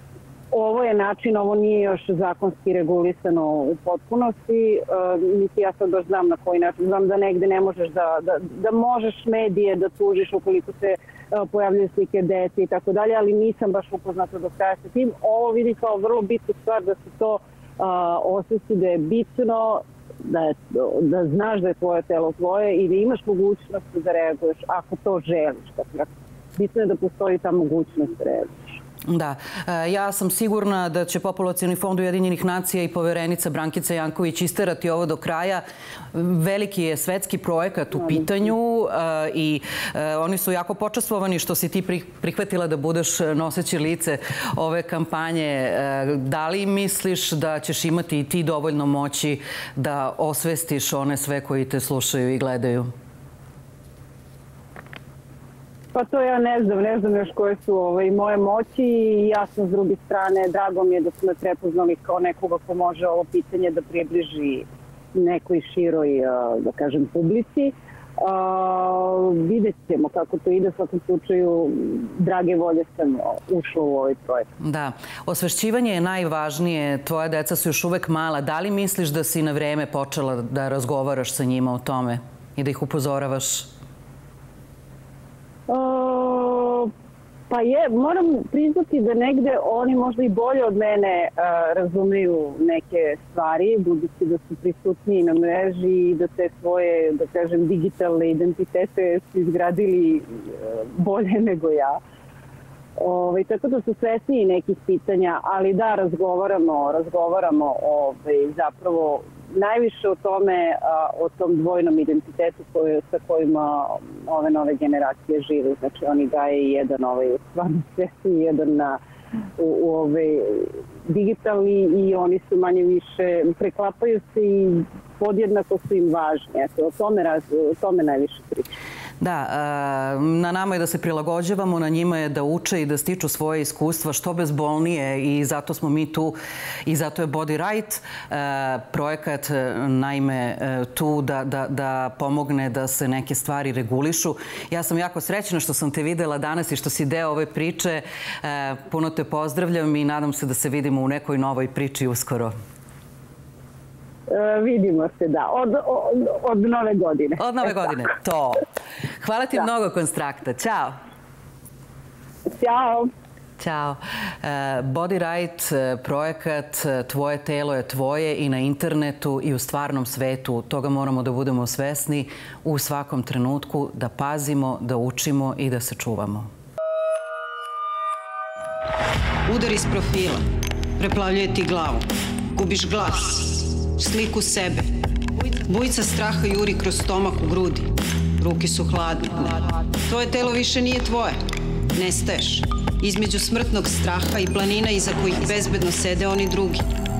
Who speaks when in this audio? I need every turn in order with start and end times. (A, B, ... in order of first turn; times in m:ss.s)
0:00.5-0:28.8 A
0:29.1-0:52.9 B
0:55.9-1:14.5 A
1:14.6-1:23.7 B
1:25.7-1:26.9 A
1:27.5-1:42.0 A
1:43.0-1:59.0 A
1:59.6-2:08.7 A
2:09.2-2:32.5 B
2:34.3-2:37.7 A
2:37.4-2:38.6 B
2:39.2-2:41.0 B
2:42.5-2:43.1 A
2:43.6-2:56.5 B
2:59.4-3:00.4 C
3:01.0-3:11.4 C
3:11.9-3:16.9 C